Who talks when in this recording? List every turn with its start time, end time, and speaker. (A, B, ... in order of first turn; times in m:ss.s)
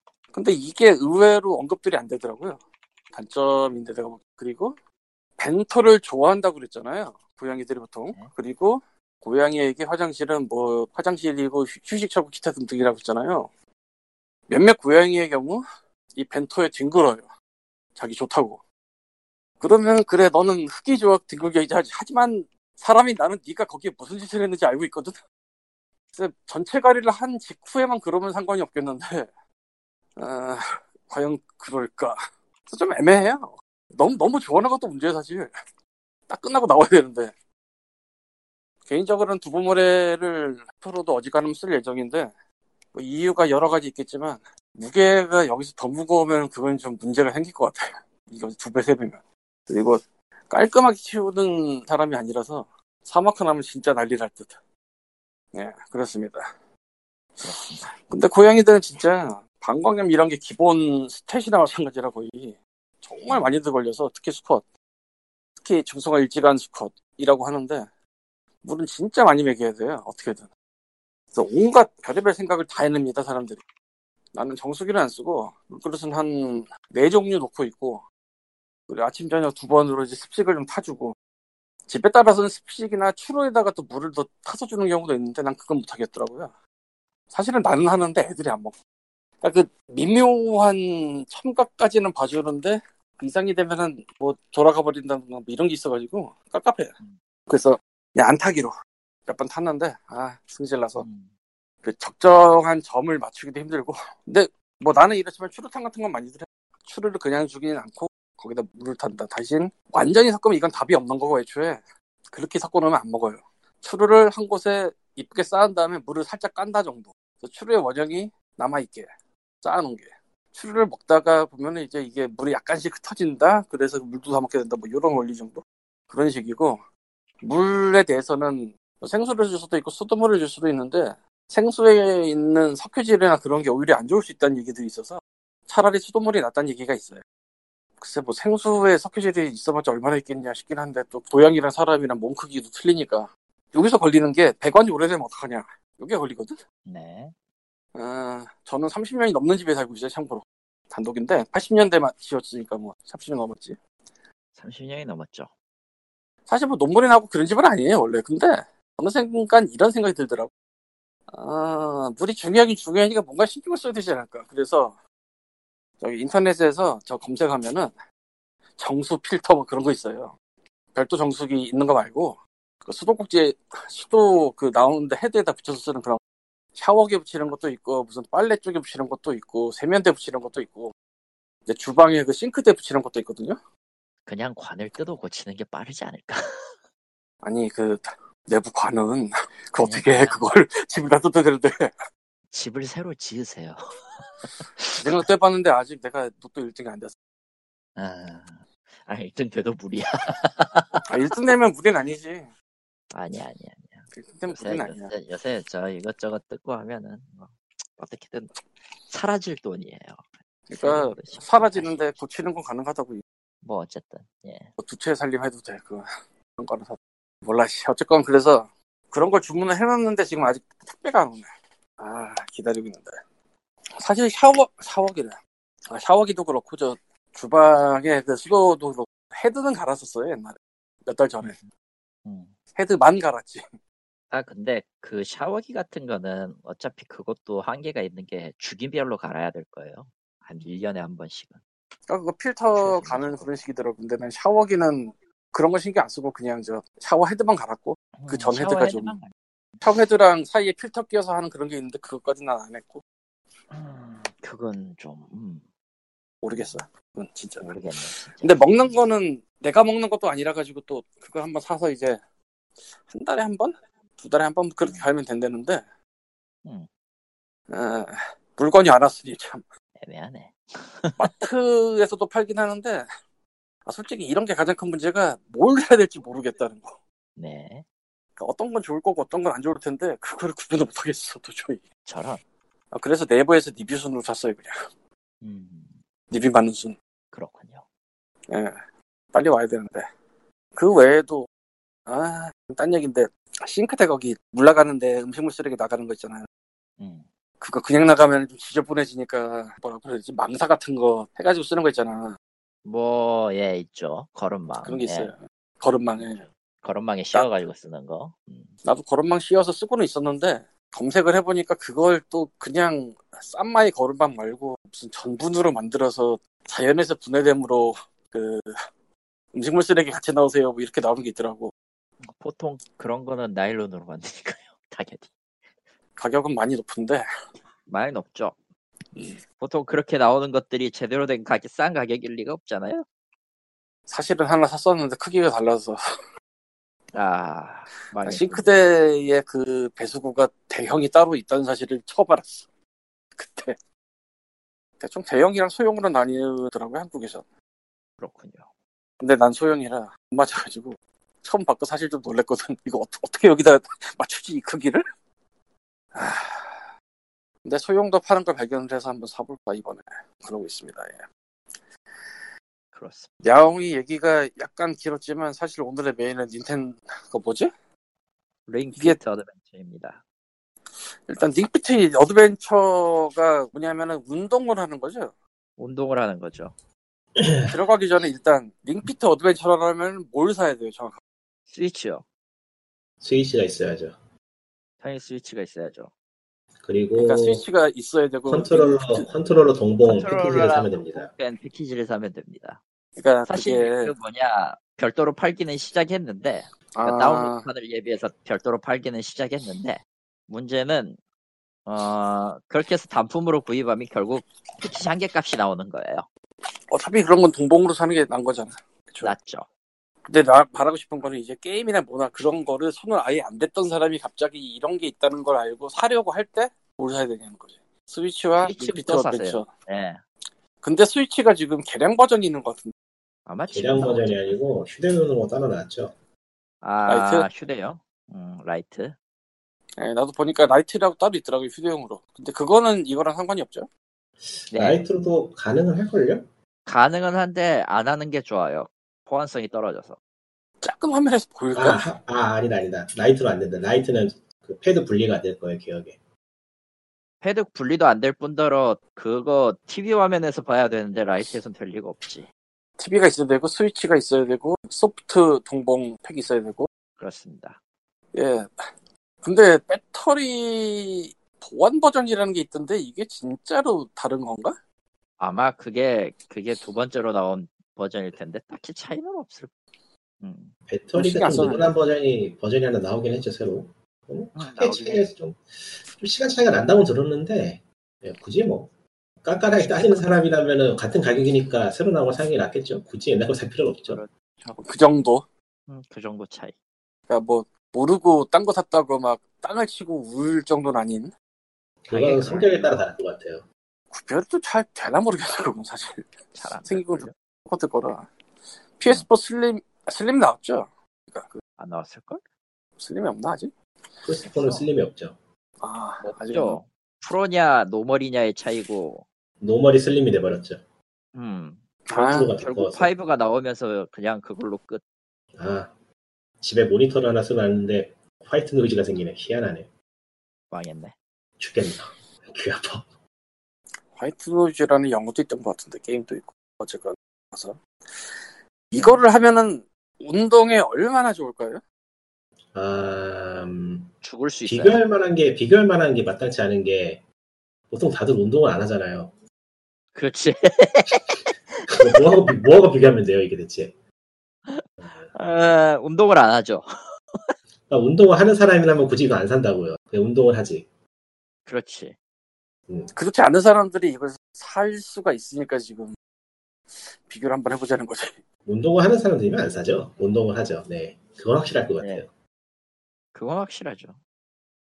0:00.3-0:02.6 A
0:03.1-0:04.8 A
0:05.4-0:13.5 A
0:14.5-0:15.6 A
0:16.2-0:17.3 A
0:18.0-0:18.6 A
0:19.6-0:25.2 A
0:26.2-0:29.3 A
0:30.2-0:35.5 A
0:36.3-0:37.3 A
0:38.9-0:42.3 A
0:42.9-0:54.6 A
0:55.5-0:56.4 A
0:57.4-1:04.6 A
0:57.4-0:57.9 B
1:05.6-1:07.9 A
1:08.6-1:10.5 A
1:11.3-1:13.6 A
1:14.3-1:18.0 A
1:18.9-1:21.2 A
1:21.9-1:26.5 A
1:27.3-1:28.8 A
1:29.4-1:36.9 A
1:37.5-1:38.7 A
1:39.3-1:41.1 A
1:41.0-1:41.3 B
1:41.8-1:59.1 A
1:59.6-2:06.8 A
2:07.4-2:17.2 A
2:18.0-2:26.6 A
2:26.9-2:27.3 B
2:28.0-2:33.8 A
2:34.6-2:35.5 B
2:36.5-2:40.5 A
2:41.3-2:45.0 A
2:46.0-2:47.9 A
2:48.8-2:50.4 A
2:50.9-2:56.2 A
2:56.8-3:00.9 A
3:01.7-3:03.6 A
3:04.3-3:06.7 B
3:07.4-3:11.9 A
3:09.8-3:10.4 B
3:12.5-3:15.0 B
3:15.0-3:17.1 A
3:18.0-3:21.1 B
3:21.1-3:22.5 A
3:23.1-3:28.6 B
3:24.1-3:25.1 A
3:29.1-3:30.3 B
3:30.7-3:33.2 A
3:30.8-3:32.2 B
3:33.6-3:34.7 B
3:34.8-3:36.0 A
3:36.6-3:41.5 A
3:42.0-3:43.2 A
3:44.0-3:45.4 A
3:45.9-3:51.6 A
3:52.2-3:52.5 B
3:52.8-3:53.6 A
3:54.3-4:01.6 B
4:02.1-4:09.2 A
4:02.8-4:03.5 B
4:08.2-4:09.3 B
4:09.8-4:13.0 A
4:13.7-4:15.6 B
4:16.4-4:22.2 A
4:17.6-4:18.7 B
4:23.1-4:25.8 A
4:27.7-4:29.6 A
4:30.0-4:31.3 B
4:31.2-4:33.1 A
4:33.9-4:37.0 A
4:37.4-4:37.8 B
4:38.4-4:41.8 A
4:42.1-4:42.4 B
4:42.9-4:44.8 A
4:45.4-4:46.0 B
4:46.3-4:47.0 A
4:47.3-4:47.8 B
4:48.5-4:48.7 A
4:49.3-4:50.1 A
4:50.8-4:51.5 A
4:52.1-4:56.5 A
4:57.0-4:57.3 B
4:57.6-5:02.4 A
5:02.8-5:05.3 B
5:04.8-5:06.4 A
5:06.2-5:08.7 B
5:07.3-5:07.7 A
5:08.8-5:18.8 A
5:19.5-5:21.7 A
5:22.2-5:25.3 B
5:26.2-5:27.2 A
5:27.9-5:28.6 B
5:29.6-5:33.1 B
5:34.1-5:36.0 A
5:37.1-5:38.7 B
5:38.2-5:42.7 A
5:43.4-5:43.8 A
5:45.0-5:47.4 A
5:48.2-5:48.7 B
5:49.2-5:55.0 A
5:56.2-5:56.9 A
5:57.6-6:01.2 A
6:02.9-6:03.3 B
6:03.4-6:07.7 A
6:08.7-6:10.2 B
6:11.3-6:15.3 A
6:15.8-6:16.7 B
6:17.4-6:17.7 C
6:17.7-6:21.2 A
6:21.7-6:22.2 B
6:23.2-6:24.2 C
6:25.0-6:26.1 B
6:26.8-6:27.6 C
6:27.2-6:29.3 A
6:28.5-6:31.3 C
6:30.0-6:32.8 B
6:33.2-6:34.1 A
6:33.5-6:41.2 B
6:36.9-6:37.7 A
6:41.9-6:46.3 B
6:46.9-6:49.3 A
6:49.2-6:49.7 B
6:50.3-6:59.7 A
6:58.6-7:00.2 B
7:00.8-7:02.9 A
7:03.5-7:04.6 B
7:03.7-7:06.1 C
7:06.8-7:09.2 B
7:07.1-7:07.5 A
7:10.0-7:13.9 A
7:14.5-7:16.4 C
7:14.7-7:15.0 B
7:16.9-7:20.2 B
7:20.8-7:22.1 A
7:21.8-7:26.2 C
7:27.4-7:32.5 B
7:33.0-7:36.9 A
7:37.2-7:37.8 B
7:38.3-7:38.9 A
7:39.4-7:44.8 A
7:45.4-7:49.7 B
7:50.4-7:50.7 B
7:50.9-7:58.9 C
7:51.2-7:51.9 A
7:54.6-7:55.3 B
7:59.4-8:04.2 C
7:59.6-8:00.5 B
8:04.0-8:04.8 B
8:04.8-8:05.4 A
8:05.9-8:06.7 B
8:07.3-8:11.3 A
8:12.0-8:13.6 C
8:12.1-8:13.1 B
8:14.1-8:18.3 A
8:16.6-8:17.3 B
8:19.0-8:21.6 A
8:21.8-8:22.4 B
8:23.0-8:23.7 A
8:24.2-8:25.4 C
8:24.5-8:24.9 B
8:25.8-8:26.8 A
8:26.2-8:29.2 B
8:29.6-8:30.8 C
8:31.4-8:31.8 B
8:32.1-8:32.5 A
8:32.1-8:33.1 C
8:32.5-8:35.0 B
8:35.6-8:35.9 C
8:36.6-8:39.9 C
8:40.7-8:41.2 B
8:41.6-8:43.1 C
8:44.1-8:47.8 A
8:48.9-8:51.8 A
8:49.0-8:49.2 B
8:52.7-8:54.1 C
8:54.2-8:55.0 B
8:54.7-8:57.2 C
8:57.9-8:59.3 C
9:00.2-9:02.3 B
9:01.9-9:03.9 C
9:04.7-9:06.9 B
9:05.0-9:05.3 C
9:07.9-9:10.9 C
9:11.7-9:12.2 B
9:13.1-9:16.2 A
9:17.3-9:18.4 A
9:18.7-9:22.3 C
9:22.0-9:22.2 B
9:23.4-9:24.2 B